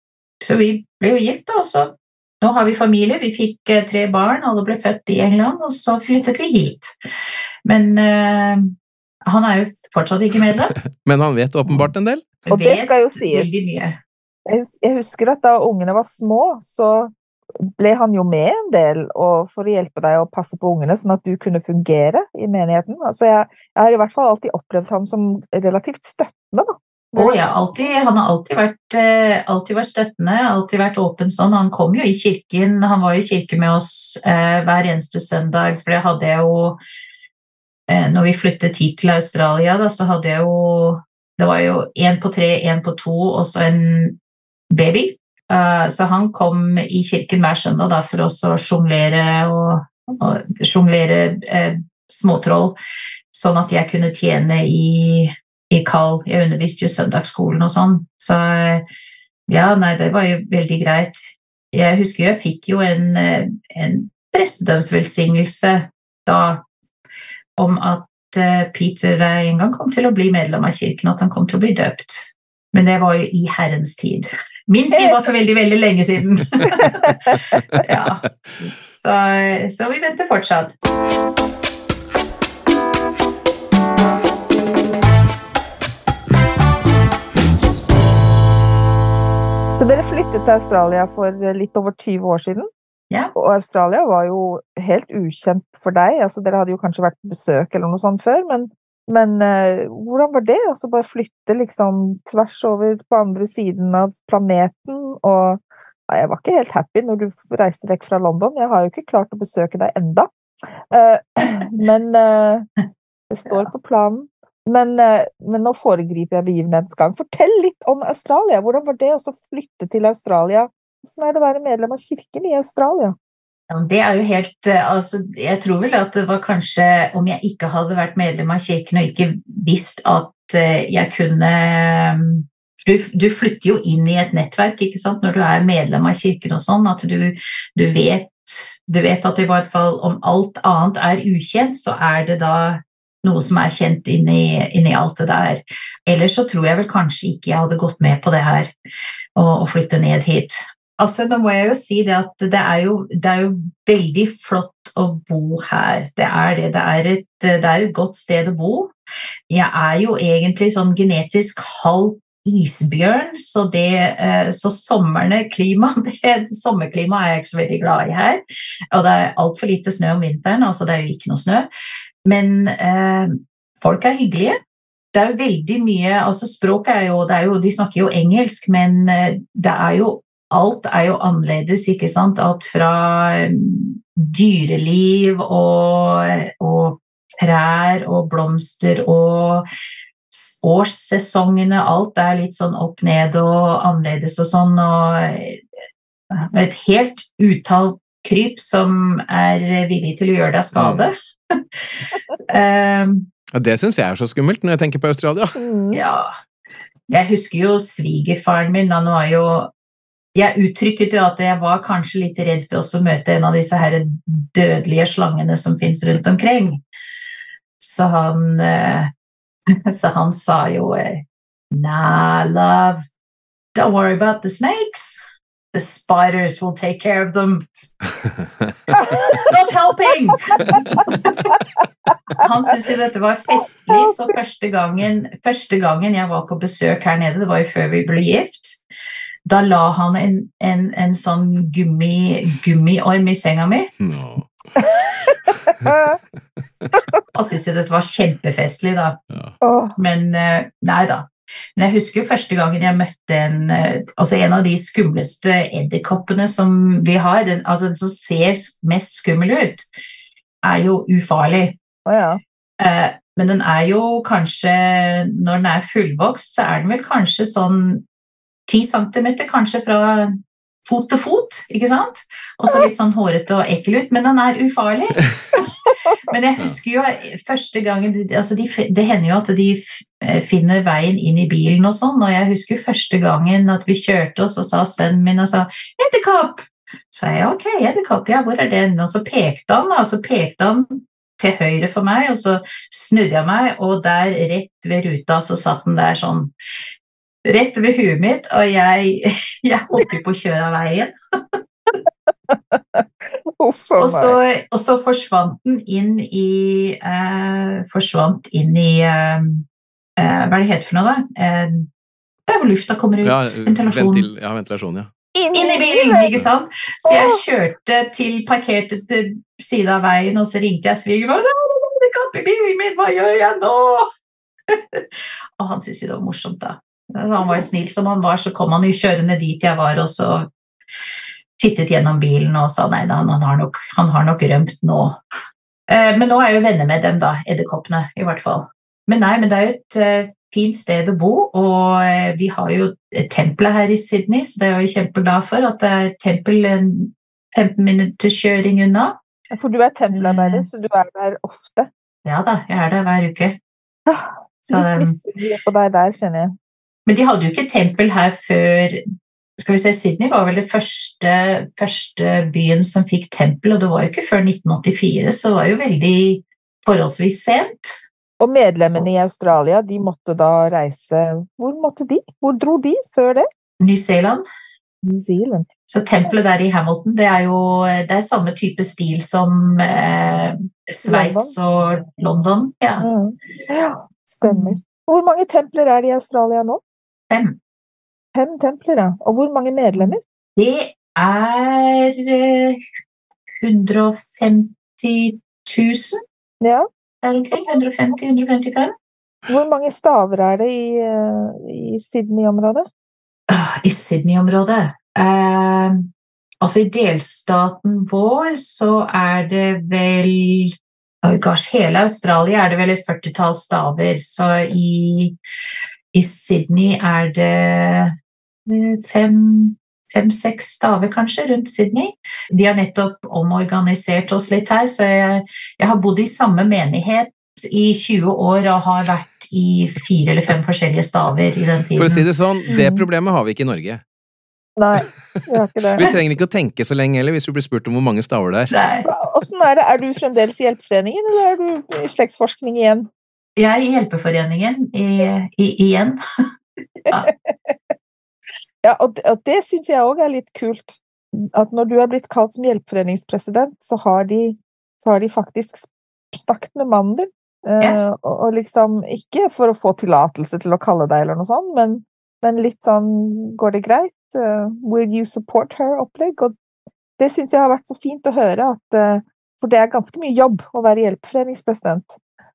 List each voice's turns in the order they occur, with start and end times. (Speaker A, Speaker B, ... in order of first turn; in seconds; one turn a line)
Speaker A: 0.4-6.9
Speaker A: 7.6-8.7
Speaker A: 9.2-10.7
Speaker B: 11.0-12.3
Speaker A: 12.4-14.0
Speaker C: 12.5-13.6
Speaker C: 14.4-17.1
Speaker C: 17.8-27.4
Speaker A: 27.1-36.8
Speaker A: 37.9-44.2
Speaker A: 44.7-52.8
Speaker A: 53.3-58.8
Speaker A: 59.5-66.6
Speaker A: 67.6-80.7
Speaker C: 76.8-77.4
Speaker C: 89.7-92.7
Speaker C: 93.3-110.3
Speaker C: 110.9-112.7
Speaker C: 113.3-123.2
Speaker A: 123.7-148.7
Speaker A: 149.3-158.9
Speaker A: 159.5-171.7
Speaker A: 172.2-174.6
Speaker A: 175.1-189.7
Speaker A: 190.3-195.6
Speaker A: 196.3-201.8
Speaker B: 200.7-201.1
Speaker A: 202.5-203.3
Speaker B: 203.5-205.6
Speaker C: 205.6-206.0
Speaker A: 205.9-206.3
Speaker A: 207.1-209.7
Speaker A: 210.3-216.8
Speaker A: 217.8-219.1
Speaker A: 219.9-223.0
Speaker A: 223.7-225.2
Speaker A: 225.7-227.7
Speaker B: 228.4-228.7
Speaker C: 228.9-229.4
Speaker A: 229.4-231.5
Speaker A: 232.4-238.8
Speaker C: 233.9-234.2
Speaker A: 239.4-243.9
Speaker B: 244.0-244.5
Speaker C: 244.8-245.3
Speaker C: 245.9-246.2
Speaker A: 247.3-249.2
Speaker B: 249.3-249.5
Speaker C: 249.6-249.9
Speaker A: 249.9-259.9
Speaker A: 260.6-261.8
Speaker C: 262.1-262.4
Speaker A: 262.8-268.0
Speaker A: 268.7-275.6
Speaker A: 276.3-296.5
Speaker A: 297.4-301.1
Speaker C: 302.5-303.0
Speaker C: 303.6-304.4
Speaker A: 304.0-309.6
Speaker A: 310.2-311.9
Speaker A: 312.5-314.2
Speaker B: 313.2-315.1
Speaker C: 315.3-316.4
Speaker A: 315.5-324.0
Speaker C: 317.0-317.4
Speaker A: 324.7-325.0
Speaker A: 325.6-330.5
Speaker A: 331.6-335.2
Speaker A: 335.9-349.2
Speaker C: 349.5-351.9
Speaker A: 350.1-350.6
Speaker A: 352.2-353.6
Speaker C: 354.1-356.5
Speaker A: 354.7-355.2
Speaker A: 357.1-359.0
Speaker A: 359.6-368.0
Speaker C: 368.4-373.5
Speaker A: 373.8-374.4
Speaker C: 375.0-375.7
Speaker A: 375.9-383.1
Speaker C: 381.0-381.5
Speaker C: 383.0-386.8
Speaker A: 384.4-384.8
Speaker A: 387.3-387.6
Speaker C: 388.3-390.2
Speaker A: 389.9-392.8
Speaker A: 393.6-396.2
Speaker C: 396.6-396.9
Speaker A: 397.2-398.9
Speaker C: 399.5-402.9
Speaker A: 403.5-406.0
Speaker A: 406.6-415.4
Speaker A: 416.1-418.1
Speaker A: 418.6-432.2
Speaker B: 431.9-434.0
Speaker C: 432.7-433.0
Speaker C: 434.8-436.1
Speaker B: 435.9-438.7
Speaker A: 438.7-439.1
Speaker C: 439.1-443.1
Speaker A: 443.6-446.2
Speaker C: 447.2-447.7
Speaker C: 448.8-466.5
Speaker C: 467.2-472.2